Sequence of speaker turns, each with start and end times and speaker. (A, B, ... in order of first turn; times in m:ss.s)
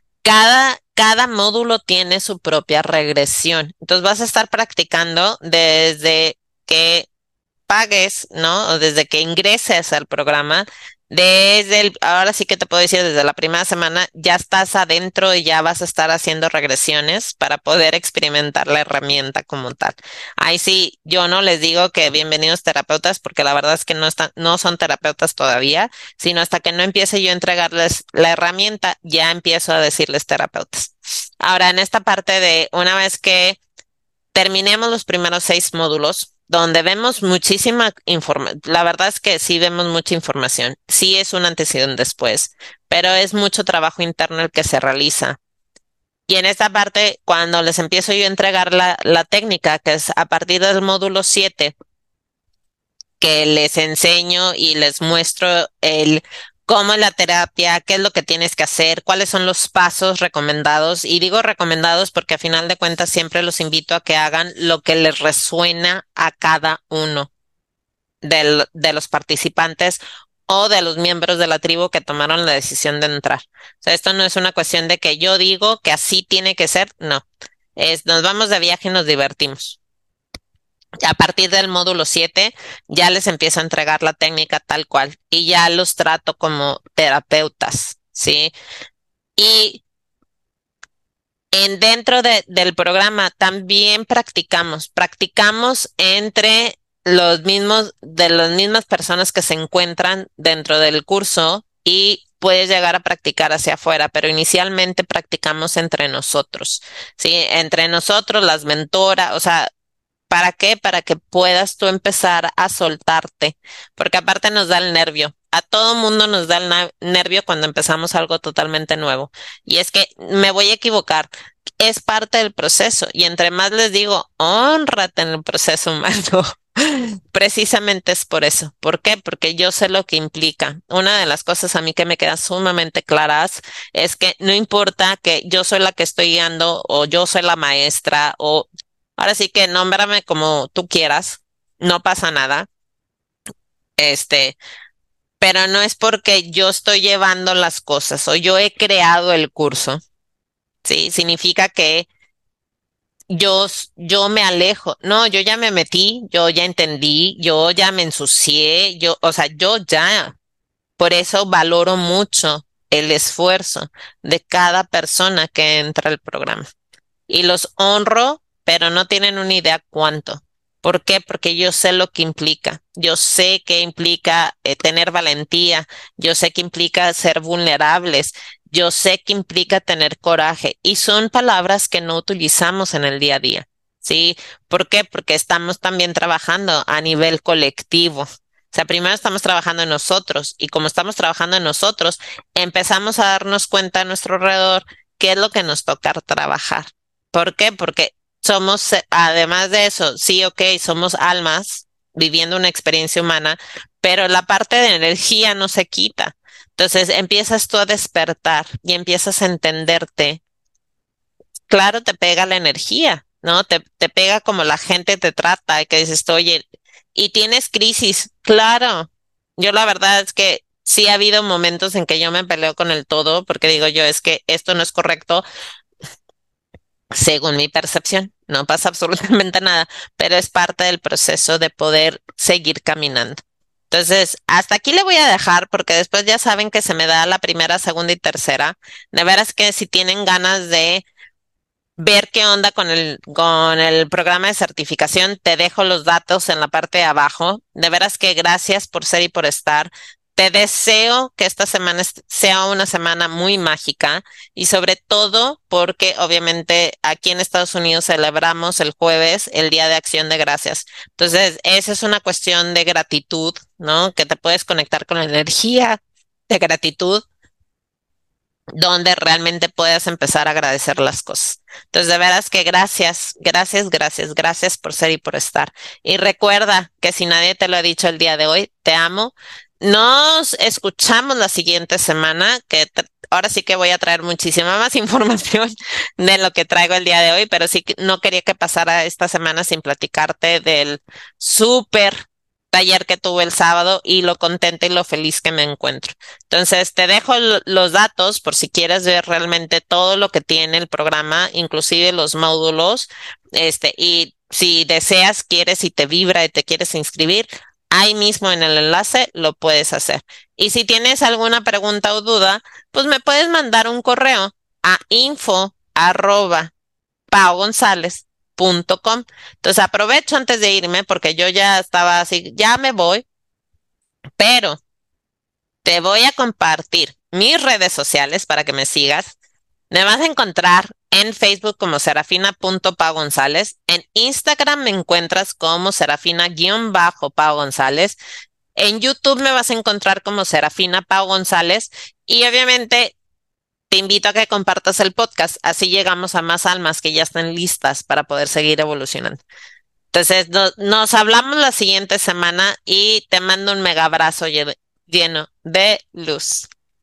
0:00.2-0:07.1 A
0:07.7-0:33.6 A
0:34.3-0:45.4 A
0:46.3-0:51.7 A
0:53.2-1:07.3 A
1:08.2-1:17.2 A
1:17.8-1:19.8 A
1:21.0-1:28.5 A
1:29.4-1:29.8 A
1:31.5-1:49.7 A
1:50.3-2:22.7 A
2:24.0-2:24.6 A
2:25.4-2:30.0 A
2:30.8-2:32.1 A
2:33.3-2:40.3 A
2:41.0-2:46.7 A
2:47.3-3:30.4 A
3:31.7-3:45.4 A
3:47.2-4:01.0 A
4:02.0-4:27.2 A
4:28.7-5:16.7 A
5:17.3-5:23.2 A
5:24.4-5:24.8 A
5:25.8-5:29.3 A
5:29.9-5:38.2 A
5:38.8-5:43.1 A
5:43.9-5:49.4 A
5:50.1-5:56.7 A